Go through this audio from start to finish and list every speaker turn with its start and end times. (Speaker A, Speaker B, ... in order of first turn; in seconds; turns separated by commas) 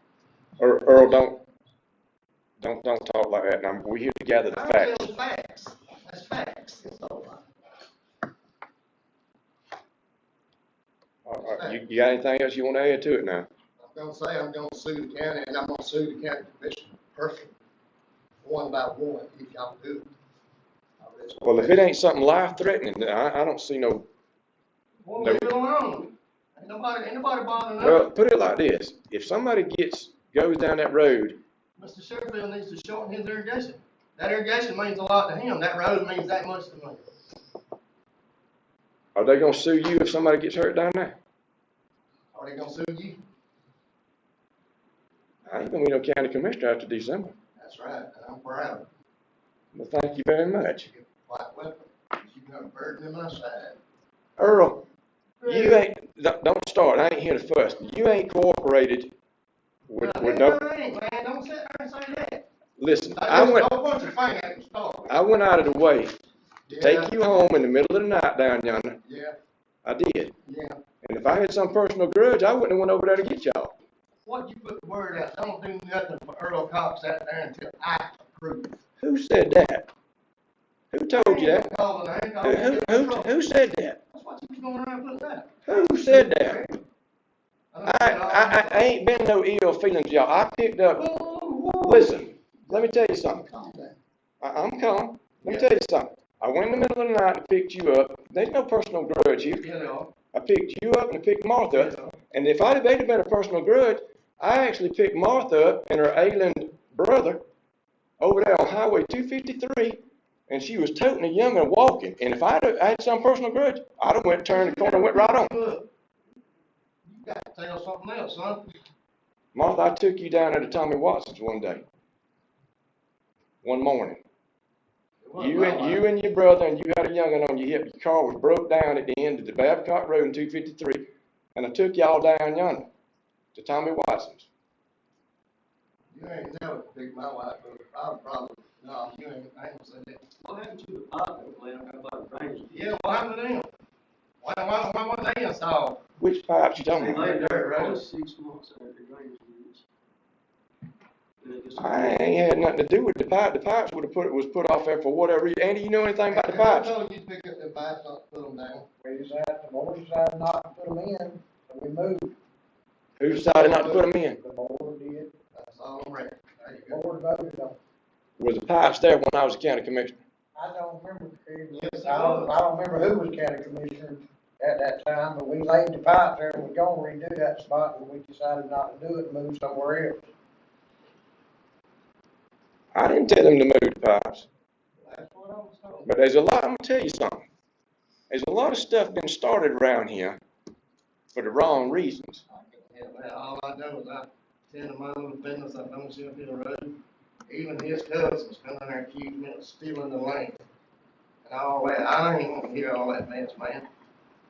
Speaker A: 0.6-1.4, Speaker A: 2.6-5.1, Speaker B: 4.5-7.4, Speaker A: 11.3-13.5, Speaker B: 11.4-11.8, Speaker B: 13.8-17.6, Speaker B: 18.4-20.1, Speaker B: 21.0-21.9, Speaker A: 21.4-24.1, Speaker B: 25.1-28.1, Speaker A: 25.2-25.5, Speaker A: 27.8-31.4, Speaker B: 31.8-37.1, Speaker A: 39.1-41.2, Speaker B: 42.3-43.2, Speaker A: 45.5-47.4, Speaker B: 47.6-48.9, Speaker A: 49.7-50.9, Speaker B: 50.9-53.8, Speaker A: 54.4-54.8, Speaker B: 55.4-55.8, Speaker A: 55.5-59.1, Speaker A: 59.9-60.6, Speaker B: 60.0-62.4, Speaker A: 62.8-63.7, Speaker B: 63.2-65.1, Speaker A: 65.1-66.2, Speaker B: 66.7-67.2, Speaker A: 66.8-69.0, Speaker B: 69.0-69.4, Speaker A: 69.8-70.3, Speaker B: 70.4-70.8, Speaker A: 71.0-73.8, Speaker B: 74.2-78.8, Speaker A: 79.0-79.9, Speaker A: 80.9-81.7, Speaker B: 81.1-83.5, Speaker A: 82.4-84.0, Speaker B: 84.1-86.8, Speaker A: 85.7-86.6, Speaker B: 87.7-89.0, Speaker A: 87.8-91.1, Speaker B: 91.0-94.0, Speaker A: 91.8-93.5, Speaker A: 94.4-99.7, Speaker B: 95.5-95.7, Speaker B: 99.5-100.1, Speaker A: 100.3-107.4, Speaker B: 101.7-102.2, Speaker A: 108.2-115.5, Speaker B: 114.5-115.9, Speaker B: 117.0-118.7, Speaker A: 119.5-121.8, Speaker A: 123.6-124.2, Speaker B: 125.2-126.1, Speaker A: 125.4-132.9, Speaker A: 133.6-134.5, Speaker B: 136.1-140.3, Speaker C: 140.4-142.7, Speaker B: 142.7-143.7, Speaker B: 144.4-146.0, Speaker A: 146.2-147.2, Speaker C: 146.9-149.8, Speaker B: 147.0-148.0, Speaker C: 151.4-152.4, Speaker A: 151.8-156.9, Speaker B: 156.3-158.9, Speaker D: 159.0-162.4, Speaker A: 163.2-164.4, Speaker B: 163.3-164.1, Speaker D: 164.3-165.3, Speaker B: 165.5-167.0, Speaker D: 166.9-167.8, Speaker A: 168.4-170.2, Speaker D: 170.6-180.3, Speaker B: 171.7-172.6, Speaker A: 182.9-184.5, Speaker B: 185.0-186.1, Speaker A: 186.1-187.5, Speaker A: 188.3-190.4, Speaker A: 191.3-192.4, Speaker B: 192.5-200.6, Speaker B: 201.4-203.9